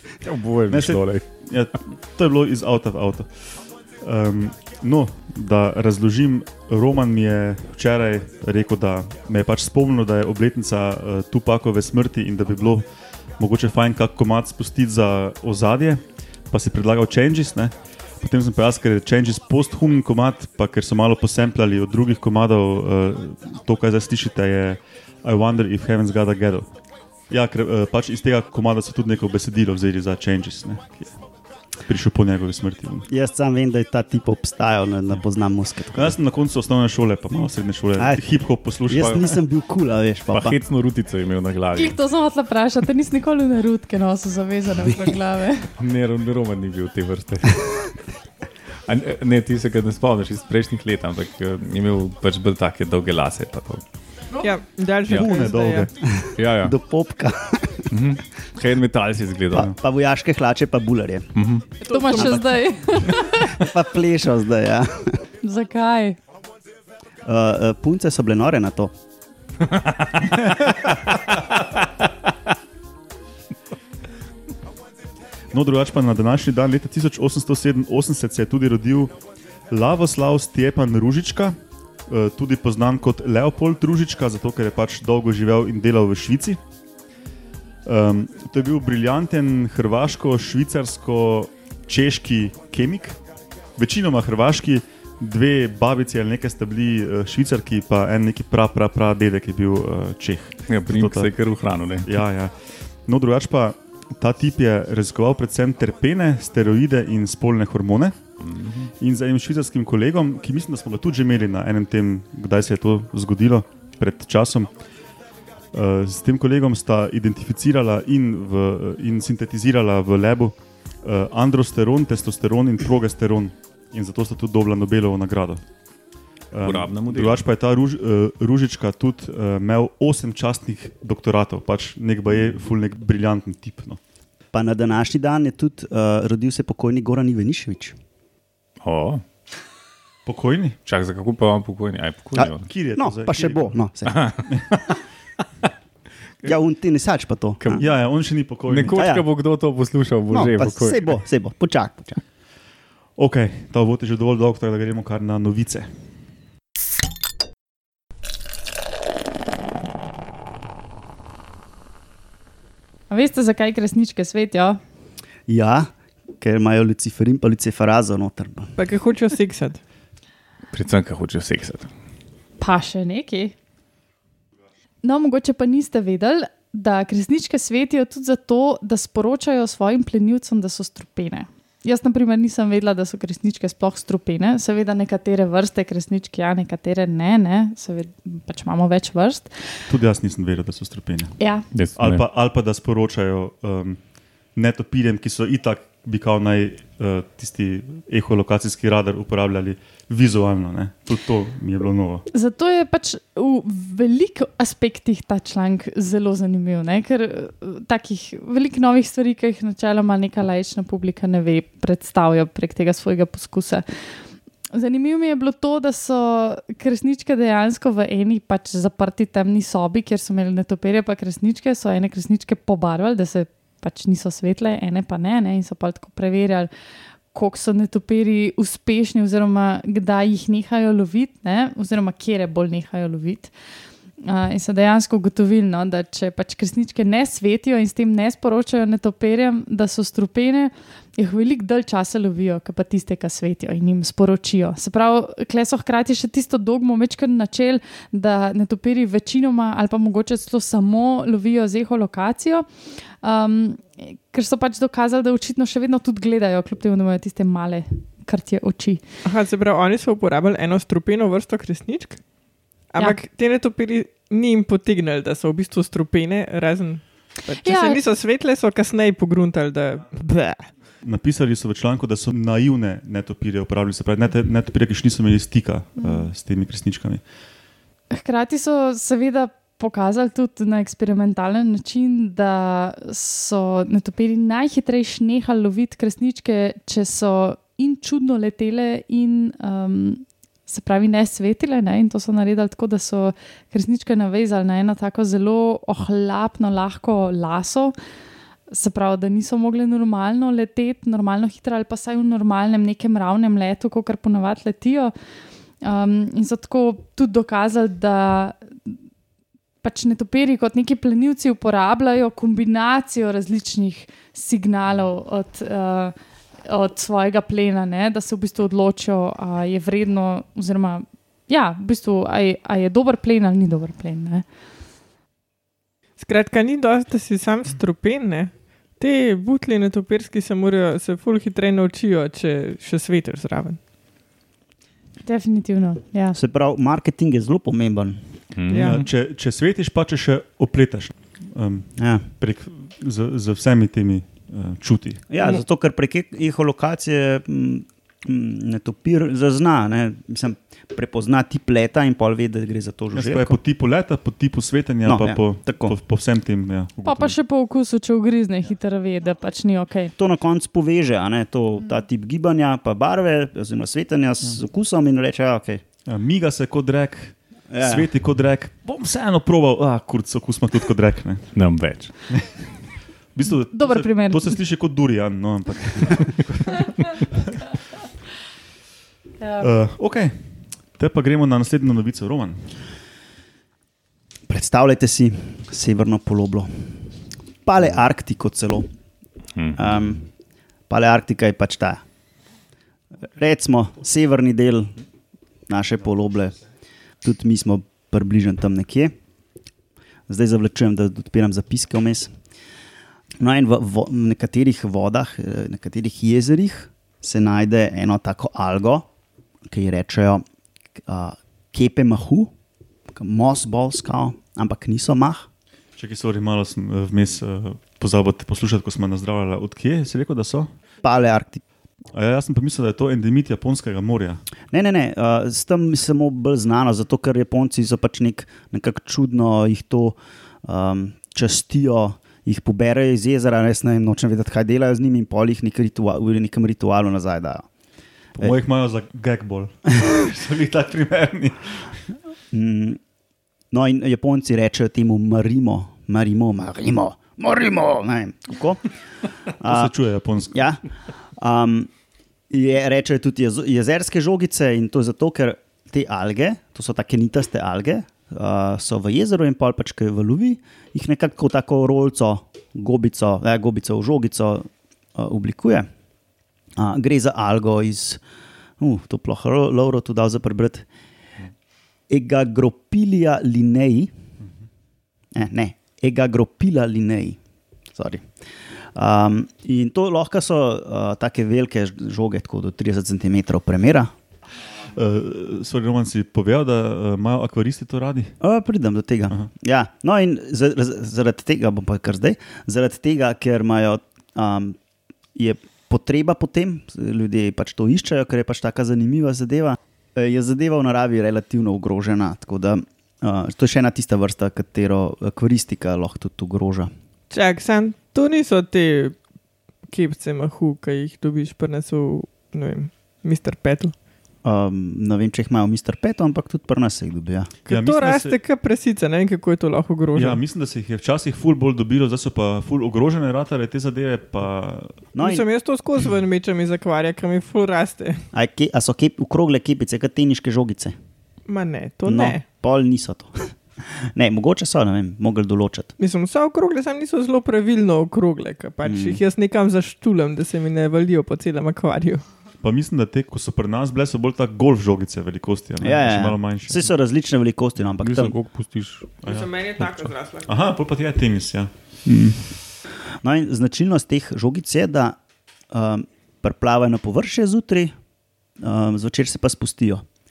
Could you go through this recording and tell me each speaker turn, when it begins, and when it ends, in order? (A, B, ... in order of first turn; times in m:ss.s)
0:00.2-0:01.3 A
0:00.7-0:12.9 B
0:13.4-0:26.7 B
0:27.3-0:31.2 B
0:31.8-0:33.1 B
0:33.1-0:36.2 C
0:35.9-0:39.4 B
0:37.4-0:40.6 C
0:38.9-0:39.2 A
0:40.3-0:42.0 A
0:41.7-0:45.7 D
0:44.8-0:45.1 C
0:45.8-0:47.9 A
0:48.8-0:53.8 A
0:54.4-0:55.9 E
0:55.1-0:55.9 B
0:56.0-0:57.9 C
0:56.4-0:56.8 A
0:57.9-0:59.7 A
0:59.5-1:01.4 C
1:01.4-1:01.7 A
1:01.8-1:03.6 D
1:01.9-1:02.3 E
1:02.1-1:02.5 C
1:03.2-1:05.3 C
1:05.4-1:06.2 D
1:07.2-1:08.9 C
1:09.6-1:10.4 A
1:15.5-1:19.2 B
1:19.7-1:26.6 B
1:27.8-1:33.2 B
1:33.8-1:41.3 B
1:40.7-1:42.1 A
1:42.0-1:48.2 B
1:48.4-1:48.9 A
1:49.0-1:54.7 B
1:55.7-2:05.6 B
2:06.5-2:14.0 B
2:06.6-2:07.4 A
2:14.5-2:18.0 C
2:18.8-2:19.2 A
2:20.2-2:20.8 B
2:20.8-2:22.7 A
2:22.3-2:24.4 C
2:22.6-2:23.8 B
2:24.1-2:24.9 A
2:26.4-2:27.8 C
2:27.6-2:27.9 A
2:27.8-2:29.0 B
2:28.7-2:31.2 A
2:28.9-2:29.2 C
2:30.3-2:32.2 C
2:33.2-2:35.9 B
2:43.1-2:44.8 D
2:45.5-2:48.8 C
2:48.8-2:49.8 E
2:50.7-2:51.9 A
2:52.6-2:53.5 D
2:55.0-3:09.9 D
3:09.9-3:14.0 B
3:11.4-3:11.8 D
3:11.7-3:12.2 A
3:14.5-3:22.2 B
3:22.3-3:46.7 D
3:47.3-3:53.5 D
3:54.2-4:19.0 D
4:19.2-4:30.7 E
4:27.6-4:28.0 D
4:31.0-4:37.2 B
4:36.0-4:36.3 D
4:38.1-4:58.0 D
4:58.7-5:05.1 D
5:05.8-5:09.0 D
5:09.8-5:24.5 D
5:26.2-5:33.8 E
5:35.2-5:36.4 D
5:36.3-5:38.2 C
5:38.5-5:39.1 A
5:38.7-5:39.0 E
5:38.8-5:45.3 B
5:42.0-5:42.2 C
5:45.3-5:53.6 C
5:53.1-5:57.4 B
5:55.0-5:56.0 C
5:57.0-6:00.1 D
6:00.2-6:05.8 C
6:06.1-6:11.6 B
6:07.7-6:08.1 C
6:11.5-6:12.1 A
6:12.3-6:12.8 B
6:13.3-6:17.1 B
6:13.7-6:14.6 D
6:19.4-6:19.7 D
6:19.6-6:22.7 B
6:24.5-6:27.0 C
6:27.6-6:28.9 C
6:29.8-6:30.3 C
6:30.9-6:32.0 C
6:33.4-6:34.9 C
6:35.7-6:36.6 C
6:37.2-6:39.1 C
6:40.3-6:42.3 C
6:43.4-6:49.0 C
6:49.7-6:50.4 C
6:51.0-6:52.5 C
6:53.1-6:55.5 C
6:56.0-7:00.7 B
7:01.0-7:01.6 C
7:02.1-7:04.4 B
7:04.7-7:17.7 C
7:18.4-7:22.0 B
7:22.5-7:23.0 C
7:23.7-7:28.9 C
7:29.6-7:29.9 C
7:29.6-7:30.7 B
7:30.5-7:31.9 C
7:32.5-7:45.9 C
7:46.8-7:48.2 C
7:48.8-7:50.9 C
7:52.1-7:54.1 C
7:55.4-7:57.4 C
7:57.9-7:58.3 C
7:58.9-8:04.1 C
8:04.9-8:08.4 B
8:08.4-8:14.8 C
8:15.4-8:26.9 C
8:27.3-8:29.2 E
8:29.9-8:33.9 E
8:34.4-8:37.5 C
8:37.7-8:40.4 E
8:37.7-8:38.4 B
8:40.1-8:45.0 B
8:45.1-8:45.5 C
8:45.2-8:48.2 E
8:48.3-8:50.9 C
8:51.5-8:52.4 E
8:52.0-8:55.9 C
8:56.0-9:02.2 E
8:58.8-8:59.2 C
9:02.6-9:06.9 B
9:05.8-9:08.4 C
9:08.0-9:09.1 A
9:09.2-9:10.8 E
9:09.2-9:11.7 B
9:12.0-9:12.5 C
9:13.2-9:15.2 C
9:15.7-9:17.9 C
9:18.6-9:20.0 C